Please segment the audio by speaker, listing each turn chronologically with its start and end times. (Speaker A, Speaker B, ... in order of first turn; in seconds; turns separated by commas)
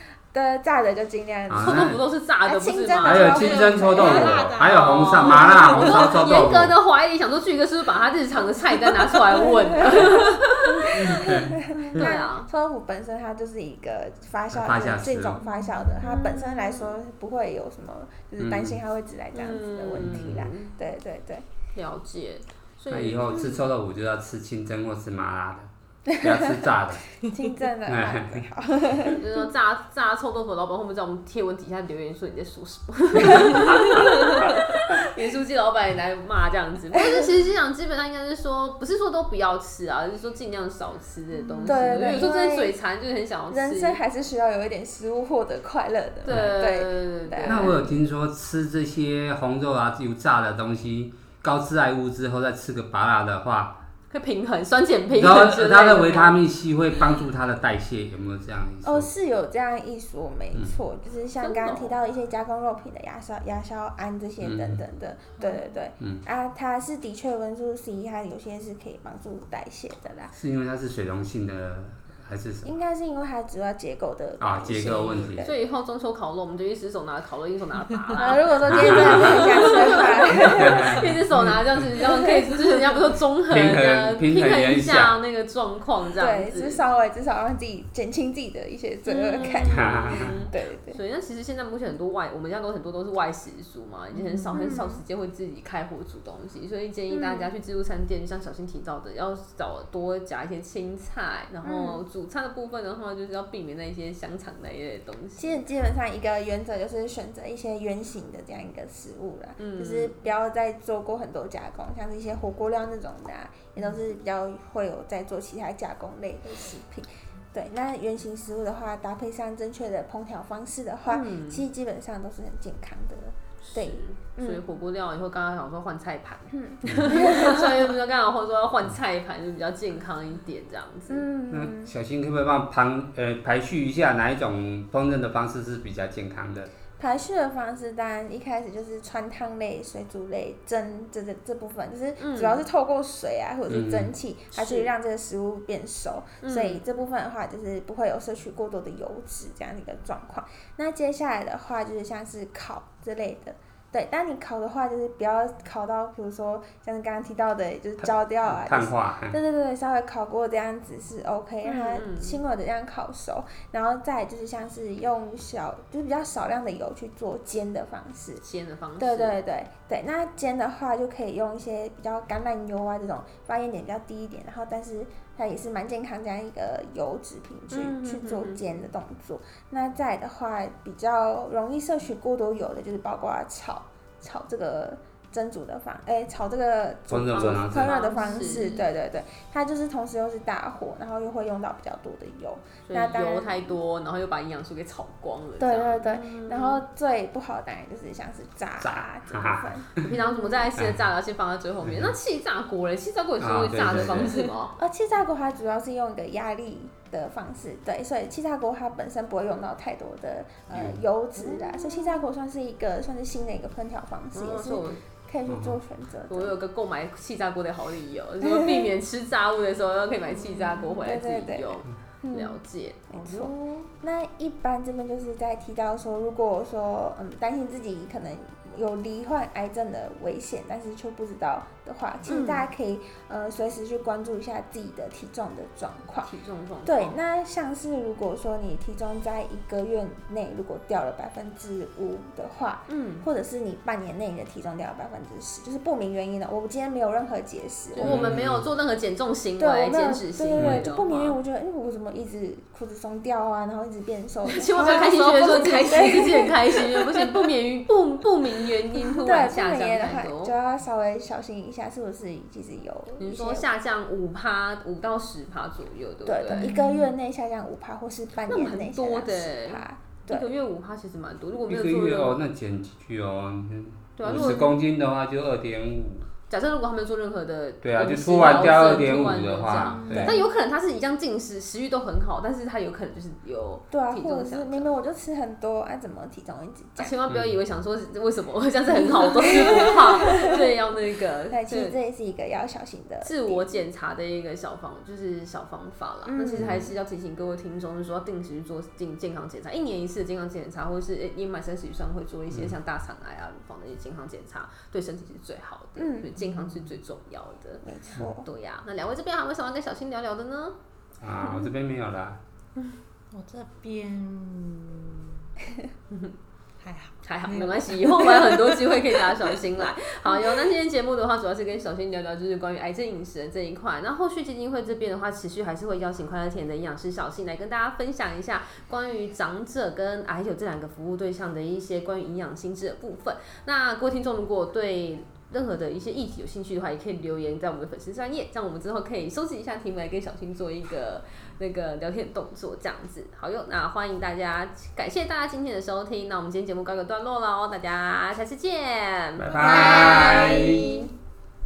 Speaker A: 0.3-4.5, Speaker B: 1.5-2.0, Speaker C: 1.6-3.5, Speaker B: 3.0-6.7, Speaker D: 3.1-6.4, Speaker C: 4.6-10.9, Speaker A: 9.4-21.4, Speaker B: 10.9-12.1, Speaker C: 11.7-12.5, Speaker B: 14.5-15.4, Speaker C: 16.0-16.9, Speaker B: 18.4-18.8, Speaker C: 19.3-20.7, Speaker B: 19.9-20.5, Speaker C: 21.7-23.3, Speaker B: 22.9-27.1, Speaker A: 23.3-23.6, Speaker A: 26.1-29.2, Speaker B: 27.9-28.4, Speaker C: 29.1-44.0, Speaker A: 33.4-33.8, Speaker A: 36.9-37.3, Speaker A: 41.6-42.8, Speaker A: 43.5-47.8, Speaker C: 46.2-47.8, Speaker B: 47.5-53.8, Speaker C: 54.1-56.4, Speaker B: 55.1-59.1, Speaker A: 58.8-70.3, Speaker C: 61.4-62.0, Speaker B: 64.4-64.8, Speaker B: 70.3-72.7, Speaker A: 72.6-75.5, Speaker B: 74.4-75.5, Speaker C: 75.4-86.8, Speaker A: 78.1-81.0, Speaker B: 78.6-79.7, Speaker B: 80.4-81.5, Speaker B: 83.5-85.1, Speaker A: 86.2-91.0, Speaker C: 89.1-105.6, Speaker B: 89.7-90.3, Speaker A: 94.5-95.0, Speaker A: 97.1-97.5, Speaker A: 101.6-102.0, Speaker A: 105.4-124.6, Speaker C: 109.6-110.1, Speaker C: 121.1-121.6, Speaker C: 123.6-131.3, Speaker A: 126.5-127.8, Speaker B: 126.8-127.2, Speaker A: 131.1-131.9, Speaker B: 131.5-136.7, Speaker A: 137.0-168.4, Speaker C: 142.2-142.6, Speaker B: 143.7-144.1, Speaker C: 144.5-144.9, Speaker C: 146.4-146.8, Speaker B: 158.0-159.4, Speaker C: 161.6-162.4, Speaker C: 168.4-169.4, Speaker A: 169.0-193.8, Speaker C: 177.7-178.6, Speaker B: 187.1-188.0, Speaker C: 187.3-188.9, Speaker C: 192.9-196.8, Speaker A: 195.6-200.6, Speaker B: 198.8-200.1, Speaker C: 200.0-204.7, Speaker B: 201.9-202.1, Speaker B: 203.4-204.3, Speaker A: 204.2-216.5, Speaker B: 210.7-211.0, Speaker C: 214.3-215.0, Speaker B: 215.5-215.8, Speaker C: 216.3-223.5, Speaker A: 218.4-218.9, Speaker A: 220.3-236.3, Speaker C: 232.3-232.7, Speaker C: 236.2-237.1, Speaker A: 236.8-248.4, Speaker C: 242.9-243.3, Speaker C: 247.9-251.4, Speaker B: 248.0-248.7, Speaker A: 249.6-257.5, Speaker B: 250.6-250.8, Speaker C: 254.4-260.5, Speaker D: 254.8-256.0, Speaker A: 259.0-263.7, Speaker C: 263.2-266.7, Speaker A: 266.2-270.5, Speaker D: 266.6-267.0, Speaker C: 268.5-272.3, Speaker B: 271.7-276.3, Speaker C: 274.2-274.7, Speaker A: 274.3-274.7, Speaker C: 276.5-284.9, Speaker B: 277.8-280.4, Speaker D: 279.7-280.3, Speaker A: 280.1-280.4, Speaker A: 283.9-287.1, Speaker C: 287.0-291.9, Speaker B: 287.3-287.6, Speaker A: 288.9-290.6, Speaker A: 291.5-293.7, Speaker C: 293.2-310.8, Speaker A: 296.2-296.9, Speaker B: 296.5-296.9, Speaker B: 302.5-302.8, Speaker A: 306.0-306.8, Speaker A: 307.8-308.5, Speaker B: 311.2-312.4, Speaker D: 313.3-315.4, Speaker C: 316.1-316.4, Speaker D: 316.8-319.6, Speaker C: 317.2-351.1, Speaker B: 349.4-350.9